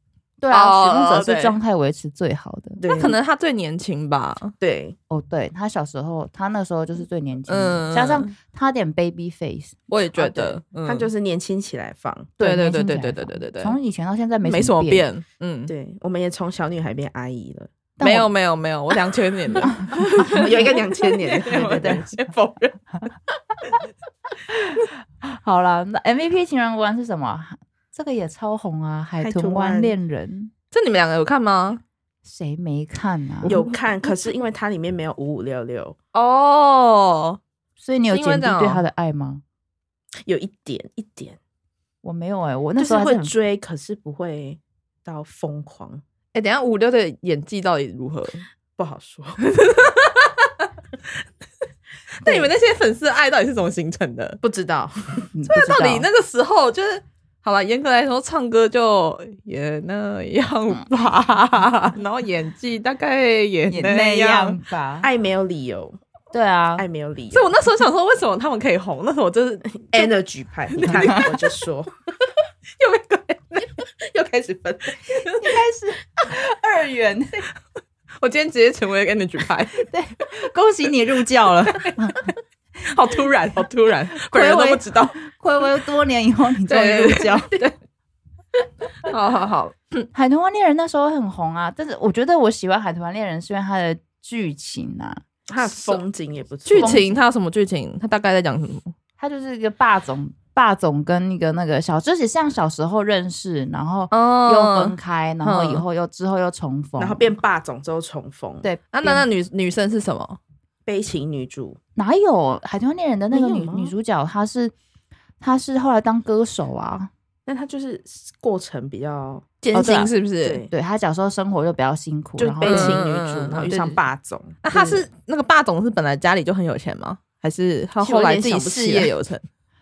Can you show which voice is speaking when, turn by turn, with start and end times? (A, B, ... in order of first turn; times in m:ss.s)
0:00.4-0:02.8 A
0:00.5-0:01.6 B
0:02.8-0:03.2 C
0:02.9-0:04.5 B
0:04.6-0:05.0 C
0:05.1-0:10.4 A
0:07.5-0:08.3 B
0:09.9-0:11.1 B
0:10.2-0:12.4 C
0:12.4-0:15.0 A
0:12.4-0:13.8 B
0:14.4-0:15.7 B
0:15.7-0:17.7 C
0:18.0-0:18.3 A
0:18.0-0:22.7 B
0:19.6-0:20.6 A
0:19.9-0:22.0 C
0:21.5-0:22.1 A
0:24.5-0:30.5 A
0:29.2-0:30.0 C
0:30.7-0:31.8 B
0:32.2-0:33.6 A
0:33.4-0:36.0 C
0:36.1-0:37.4 B
0:37.8-0:39.4 A
0:38.1-0:38.8 B
0:40.2-0:41.4 C
0:42.0-0:43.3 A
0:42.8-0:46.0 C
0:46.3-0:48.4 B
0:48.8-0:49.4 C
0:49.4-0:50.7 B
0:52.2-0:54.4 B
0:52.2-0:52.5 A
0:54.4-0:55.3 C
0:55.3-0:56.1 A
0:55.5-1:04.6 B
1:03.7-1:05.1 A
1:05.0-1:06.0 C
1:06.3-1:06.8 A
1:06.8-1:07.5 C
1:07.3-1:10.1 B
1:09.9-1:11.9 C
1:10.7-1:11.5 B
1:10.8-1:11.3 A
1:12.8-1:13.8 B
1:14.0-1:15.0 C
1:15.2-1:15.5 B
1:15.3-1:17.4 A
1:18.2-1:19.8 B
1:19.8-1:22.3 A
1:22.8-1:25.2 B
1:24.2-1:27.6 A
1:26.7-1:27.7 B
1:29.0-1:30.1 B
1:30.1-1:35.2 A
1:35.5-1:37.0 C
1:35.6-1:36.0 B
1:36.6-1:38.9 B
1:36.8-1:37.2 A
1:39.2-1:47.3 A
1:44.1-1:45.8 B
1:47.0-1:48.6 C
1:48.6-1:49.3 A
1:48.9-1:50.4 B
1:50.8-1:51.8 C
1:52.0-1:54.7 A
1:53.3-1:53.9 C
1:55.4-1:57.1 A
1:57.4-1:59.5 C
1:59.6-2:00.6 B
1:59.7-2:00.1 A
2:00.4-2:00.7 C
2:00.7-2:03.0 A
2:02.4-2:04.6 C
2:02.6-2:03.7 B
2:03.7-2:04.0 A
2:04.6-2:09.4 B
2:04.7-2:05.0 A
2:08.0-2:09.1 C